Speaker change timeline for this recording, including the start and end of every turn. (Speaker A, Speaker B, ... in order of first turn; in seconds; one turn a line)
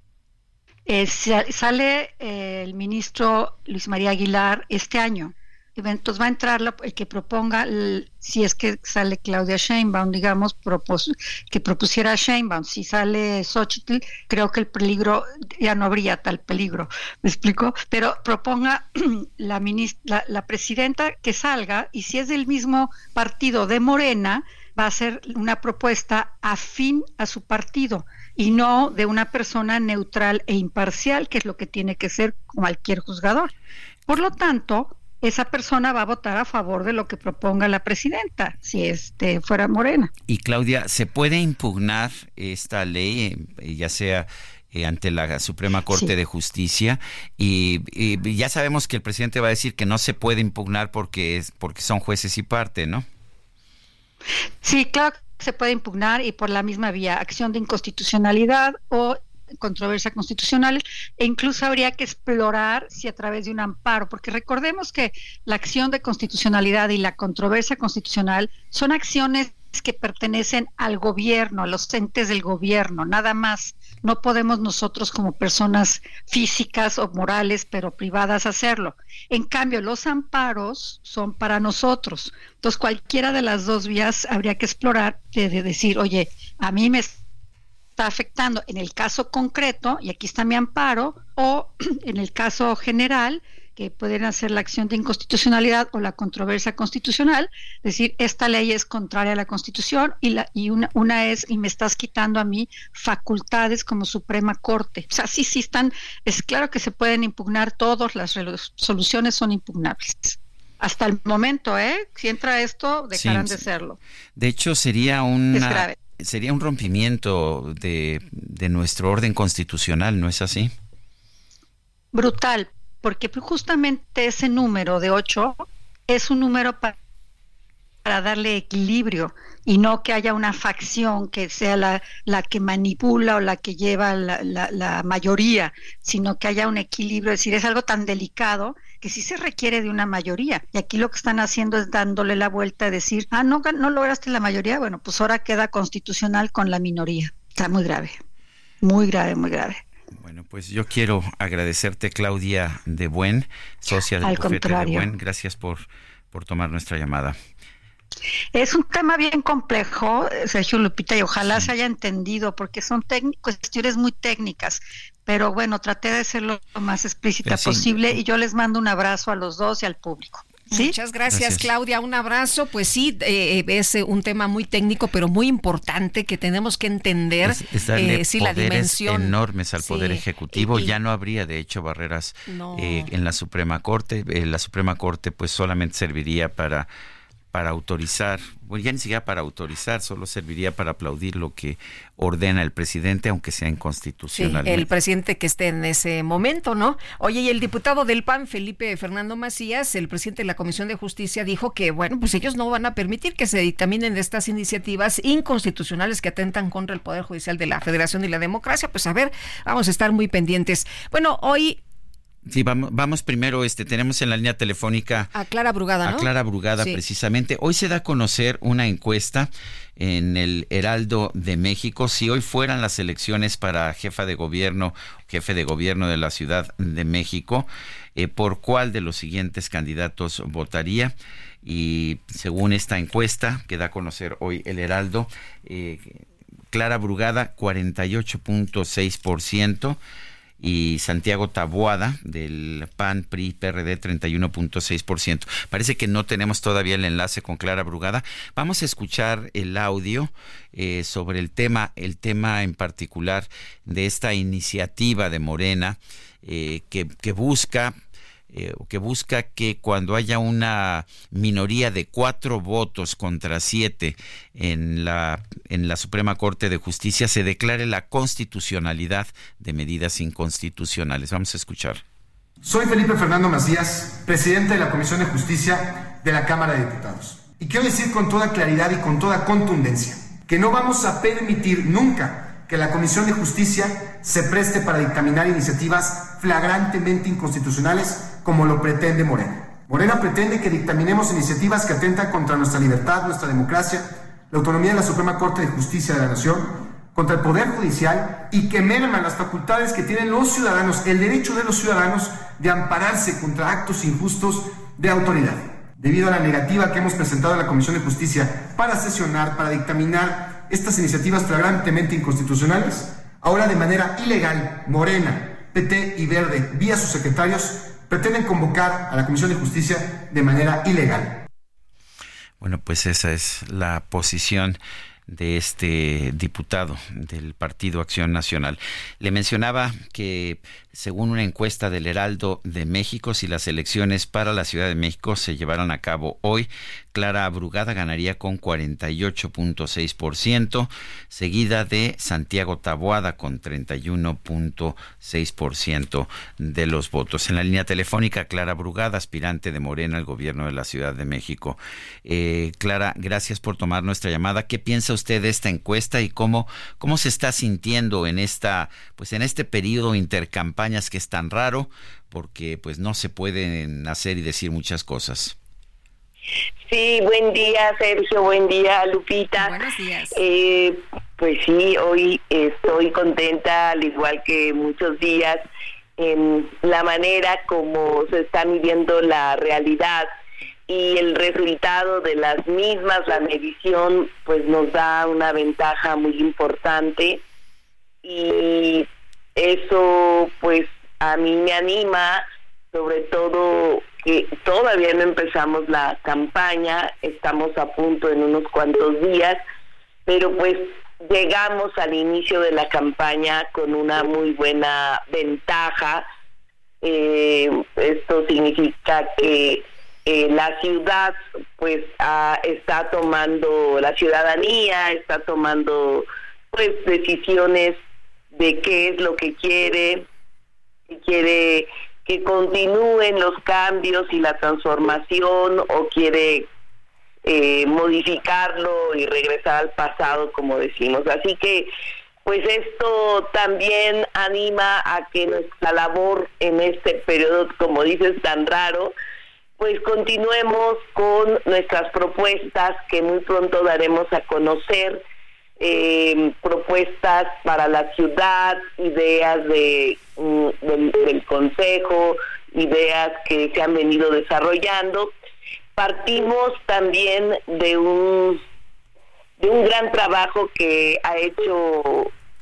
Speaker A: 0.9-33.5
Speaker A: 34.1-40.1
Speaker B: 40.3-53.0
Speaker A: 54.6-87.2
Speaker A: 88.0-114.0
Speaker B: 113.1-113.6
Speaker B: 114.3-120.7
Speaker A: 115.5-116.0
Speaker A: 122.1-126.9
Speaker A: 128.0-148.2
Speaker A: 148.8-149.8
Speaker B: 150.1-157.3
Speaker A: 154.2-155.1
Speaker A: 158.5-170.9
Speaker B: 167.4-168.2
Speaker C: 170.7-180.9
Speaker B: 171.3-171.7
Speaker B: 177.4-186.9
Speaker C: 182.5-183.1
Speaker B: 187.5-194.9
Speaker C: 194.3-211.8
Speaker B: 212.5-215.3
Speaker C: 215.3-217.0
Speaker B: 216.0-240.0
Speaker B: 240.6-257.9
Speaker B: 258.5-272.0
Speaker D: 272.6-321.4
Speaker B: 322.6-365.5
Speaker E: 366.9-369.8
Speaker C: 369.6-370.4
Speaker E: 370.3-375.6
Speaker E: 376.2-380.3
Speaker E: 380.9-387.4
Speaker E: 388.2-399.6
Speaker E: 400.2-406.2
Speaker E: 407.0-418.0
Speaker E: 418.5-420.2
Speaker E: 421.1-426.7
Speaker E: 427.4-431.9
Speaker E: 432.4-439.1
Speaker E: 439.8-445.2
Speaker E: 445.8-455.3
Speaker E: 455.9-458.6
Speaker E: 459.6-462.3